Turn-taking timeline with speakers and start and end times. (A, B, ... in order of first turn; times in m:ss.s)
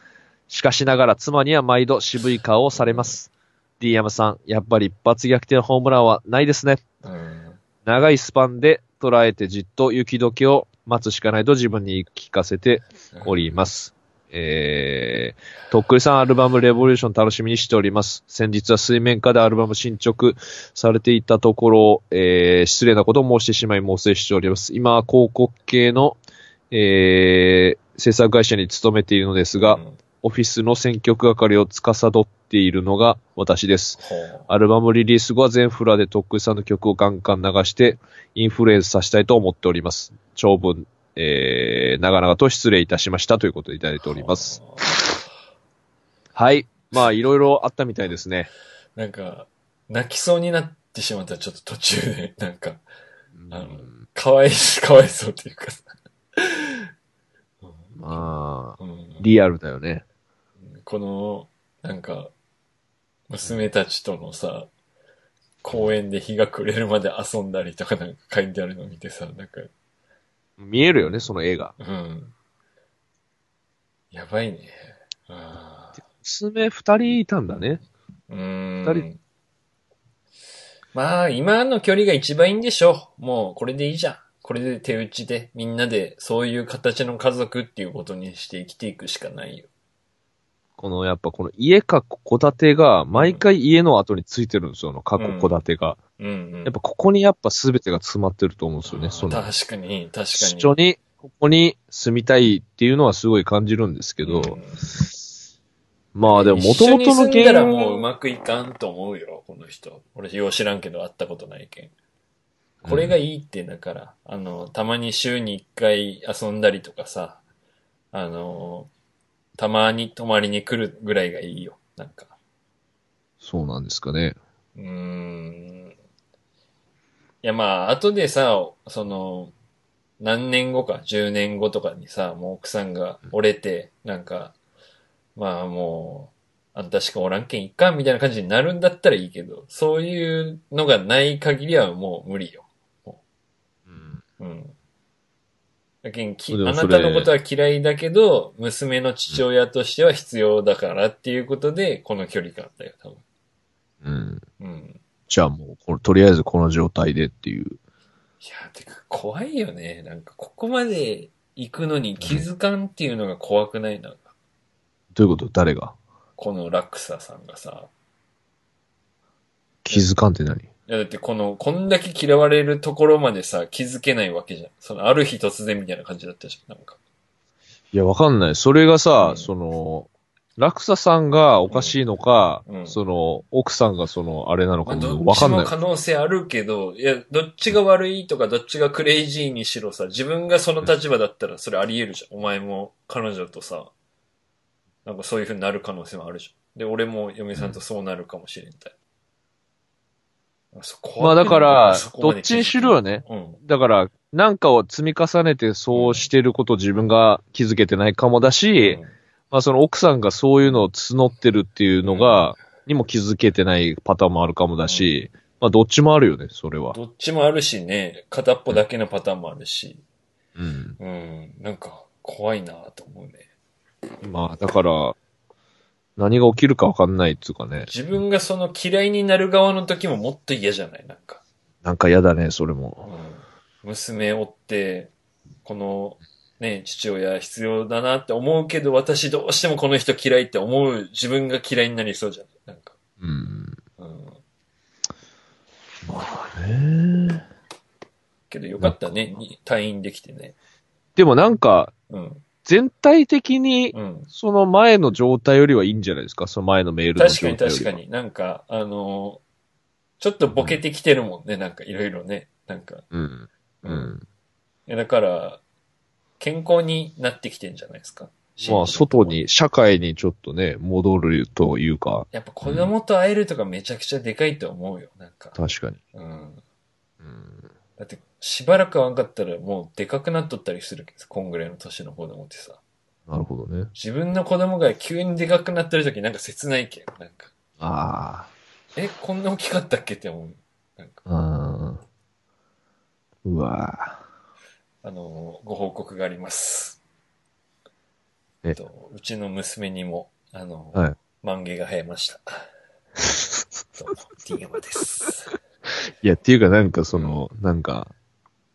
0:00.5-0:06.8 A
0:02.8-0:03.1 B
0:07.0-0:07.6 B
0:07.8-0:26.2 A
0:13.1-0:13.6 B
0:26.7-0:44.6 A
0:29.6-0:30.0 B
0:34.0-0:34.5 B
0:44.0-0:45.0 B
0:46.4-0:48.5 A
0:49.0-0:52.8 B
0:53.4-0:54.0 A
0:53.5-0:56.8 B
0:57.6-0:58.2 B
0:58.0-1:00.0 A
0:58.8-0:59.3 B
1:00.6-1:02.3 B
1:03.3-1:04.7 B
1:05.6-1:09.7 B
1:10.6-1:11.7 A
1:11.8-1:12.3 B
1:14.1-1:16.0 B
1:16.0-1:17.8 A
1:17.5-1:19.2 B
1:21.0-1:29.7 B
1:30.8-1:36.0 A
1:33.1-1:33.5 B
1:35.2-1:35.6 B
1:36.2-1:36.8 B
1:36.6-1:39.5 A
1:38.8-1:40.8 B
1:40.3-1:44.6 A
1:44.2-1:45.1 B
1:46.2-1:48.1 A
1:46.3-1:51.9 B
1:52.8-1:53.2 A
1:52.8-1:57.4 B
1:58.1-1:58.9 B
1:59.6-2:02.3 B
2:03.4-2:04.4 A
2:04.8-2:05.9 B
2:07.4-2:09.5 B
2:10.2-2:14.6 B
2:15.4-2:23.2 B
2:23.9-2:24.2 A
2:24.4-2:24.7 B
2:26.0-2:33.2 B
2:26.5-2:27.3 A
2:34.0-2:34.4 A
2:34.6-2:35.0 B
2:35.3-2:37.8 A
2:38.4-2:44.3 B
2:42.2-2:42.5 A
2:45.2-2:46.0 A
2:46.4-2:47.9 B
2:49.8-2:50.7 A
2:50.9-2:57.0 B
2:57.9-3:05.7 A
2:59.2-2:59.5 B
3:01.7-3:02.0 B
3:02.7-3:03.0 B
3:04.9-3:13.9 B
3:15.0-3:18.9 B
3:17.6-3:17.8 A
3:20.7-3:23.6 B
3:21.2-3:29.0 A
3:25.9-3:26.3 B
3:28.8-3:29.1 B
3:29.5-3:37.0 A
3:32.0-3:32.5 B
3:34.8-3:35.2 B
3:36.9-3:40.0 B
3:40.6-3:41.0 A
3:41.0-3:43.4 B
3:44.2-3:45.2 A
3:46.2-3:47.9 A
3:47.9-3:51.4 B
3:51.8-3:53.0 A
3:53.0-3:55.1 B
3:55.6-4:03.0 B
4:03.2-4:03.8 A
4:04.0-4:04.4 B
4:06.0-4:07.4 A
4:08.5-4:10.6 B
4:08.8-4:09.3 A
4:11.2-4:11.9 A
4:12.1-4:12.4 B
4:12.6-4:18.0 A
4:13.9-4:14.3 B
4:17.2-4:19.4 B
4:20.2-4:23.0 B
4:23.1-4:24.2 A
4:23.8-4:24.1 B
4:24.9-4:25.6 B
4:26.4-4:29.4 B
4:28.6-4:32.9 A
4:32.3-4:35.6 B
4:35.6-4:36.0 A
4:36.1-4:36.6 B
4:37.2-4:37.7 A
4:38.0-4:42.8 B
4:43.3-4:43.9 A
4:44.0-4:47.5 B
4:47.8-4:48.5 A
4:49.0-4:51.2 B
4:51.3-4:52.0 A
4:53.4-4:54.2 A
4:55.0-4:57.0 B
4:58.7-5:02.6 B
5:03.2-5:03.9 A
5:04.0-5:05.6 B
5:06.2-5:08.1 A
5:07.1-5:07.4 B